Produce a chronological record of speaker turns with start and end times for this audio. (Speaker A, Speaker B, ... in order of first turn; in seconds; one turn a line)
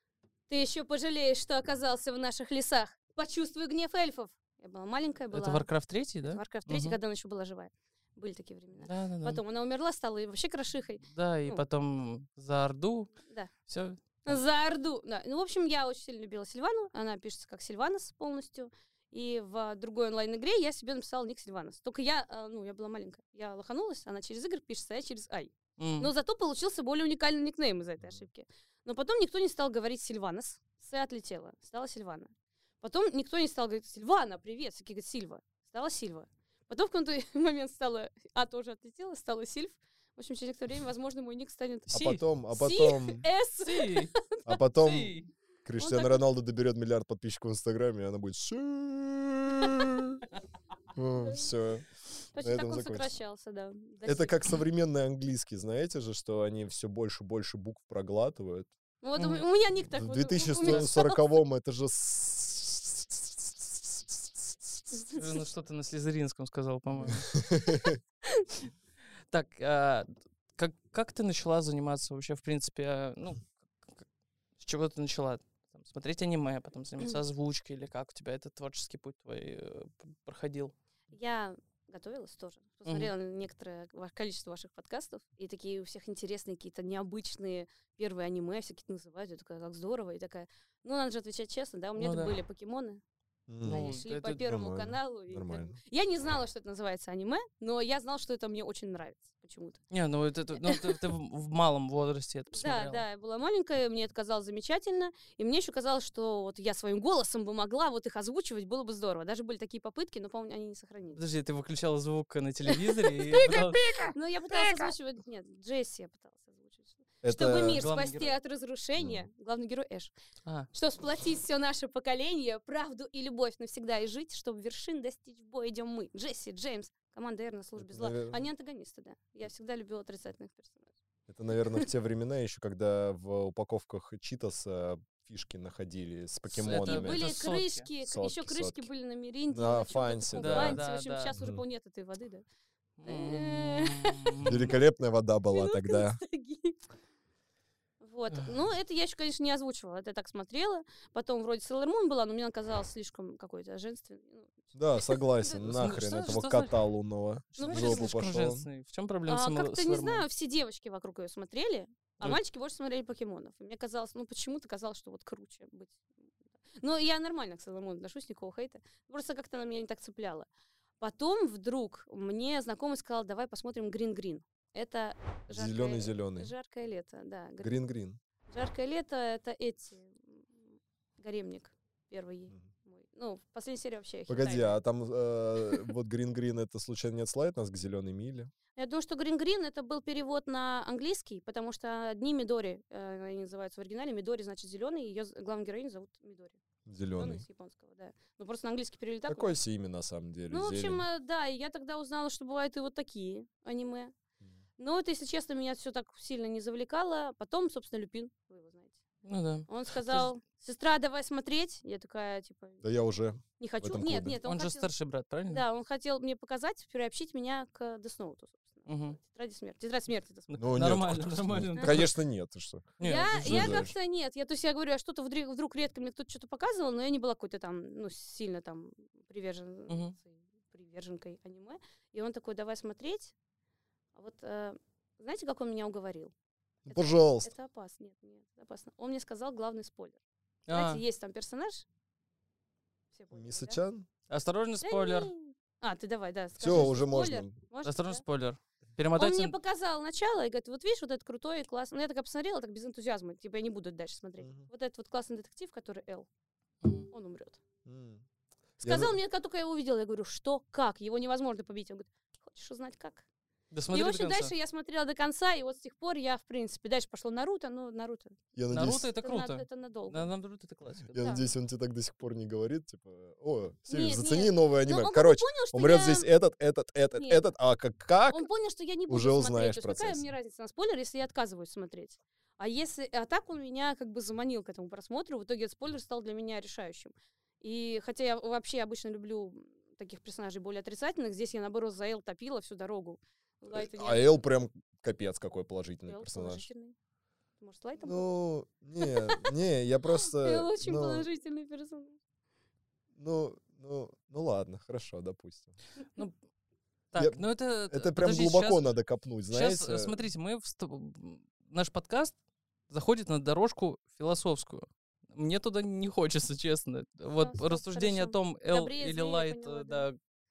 Speaker A: 0.5-5.7
Speaker B: 5.3-7.0
Speaker A: 6.2-11.6
Speaker B: 8.8-9.4
Speaker B: 11.1-13.1
Speaker A: 13.2-13.5
Speaker B: 13.7-14.4
Speaker A: 14.3-44.5
Speaker B: 25.8-26.1
Speaker C: 28.0-28.3
Speaker C: 41.9-43.3
Speaker B: 41.9-42.2
Speaker B: 43.6-44.1
Speaker C: 44.5-45.1
Speaker B: 44.8-45.3
Speaker C: 45.6-50.2
Speaker A: 45.8-46.2
Speaker C: 50.9-51.9
Speaker A: 52.4-54.4
Speaker C: 52.4-53.1
Speaker C: 54.0-58.7
Speaker A: 59.0-61.2
Speaker B: 59.2-59.4
Speaker C: 59.9-64.8
Speaker A: 64.9-65.2
Speaker B: 65.1-67.4
Speaker C: 67.1-68.0
Speaker B: 69.3-74.0
Speaker B: 74.6-80.7
Speaker A: 81.1-93.0
Speaker B: 82.9-83.1
Speaker B: 92.0-92.3
Speaker C: 93.5-95.8
Speaker B: 93.6-94.4
Speaker A: 93.6-99.8
Speaker B: 99.9-103.0
Speaker A: 100.6-101.0
Speaker A: 102.6-111.2
Speaker B: 111.2-114.1
Speaker A: 112.7-120.1
Speaker C: 117.2-117.9
Speaker B: 117.6-118.3
Speaker C: 119.0-119.2
Speaker A: 120.7-130.9
Speaker C: 127.8-128.4
Speaker C: 131.3-137.3
Speaker B: 136.5-137.9
Speaker A: 136.7-142.4
Speaker C: 138.0-138.9
Speaker C: 139.5-140.8
Speaker B: 140.4-141.3
Speaker B: 143.0-144.8
Speaker A: 143.1-144.5
Speaker C: 144.5-146.2
Speaker A: 145.5-146.8
Speaker A: 148.0-155.7
Speaker C: 154.8-158.7
Speaker B: 155.6-156.8
Speaker B: 157.6-160.2
Speaker A: 157.6-158.1
Speaker A: 159.3-166.0
Speaker A: 166.8-170.5
Speaker A: 171.0-177.8
Speaker C: 175.5-176.5
Speaker C: 177.6-178.2
Speaker A: 178.5-180.6
Speaker A: 181.2-184.8
Speaker C: 184.3-188.5
Speaker A: 188.8-196.6
Speaker C: 196.9-197.4
Speaker A: 197.2-199.5
Speaker C: 199.3-201.0
Speaker A: 200.5-204.1
Speaker A: 204.8-209.0
Speaker B: 209.2-210.3
Speaker A: 209.7-212.8
Speaker C: 212.8-214.4
Speaker A: 213.6-214.9
Speaker B: 214.4-215.6
Speaker A: 215.5-220.6
Speaker B: 218.9-219.2
Speaker B: 220.5-222.2
Speaker C: 220.6-223.9
Speaker B: 223.0-223.9
Speaker A: 223.0-233.3
Speaker B: 229.9-230.2
Speaker A: 234.2-236.3
Speaker C: 236.9-237.5
Speaker A: 236.9-241.8
Speaker B: 240.7-241.0
Speaker A: 243.1-243.8
Speaker C: 243.3-244.1
Speaker B: 244.3-245.3
Speaker A: 244.8-248.2
Speaker C: 246.6-247.5
Speaker B: 247.8-249.5
Speaker A: 249.2-256.3
Speaker C: 254.4-254.7
Speaker A: 257.1-257.6
Speaker C: 257.9-258.2
Speaker C: 258.8-259.1
Speaker A: 258.8-263.2
Speaker B: 263.7-264.5
Speaker A: 263.9-268.4
Speaker C: 268.6-269.1
Speaker B: 268.7-271.4
Speaker A: 269.2-270.3
Speaker C: 271.1-278.5
Speaker A: 273.9-276.3
Speaker A: 277.1-277.4
Speaker A: 278.3-294.4
Speaker C: 279.1-280.2
Speaker C: 293.7-296.6
Speaker A: 296.1-297.0
Speaker A: 297.6-298.3
Speaker C: 298.0-301.3
Speaker A: 299.0-299.5
Speaker A: 300.2-302.2
Speaker C: 303.1-305.8
Speaker B: 307.1-308.9
Speaker C: 307.2-310.1
Speaker B: 309.5-312.4
Speaker B: 312.9-320.2
Speaker A: 317.4-320.1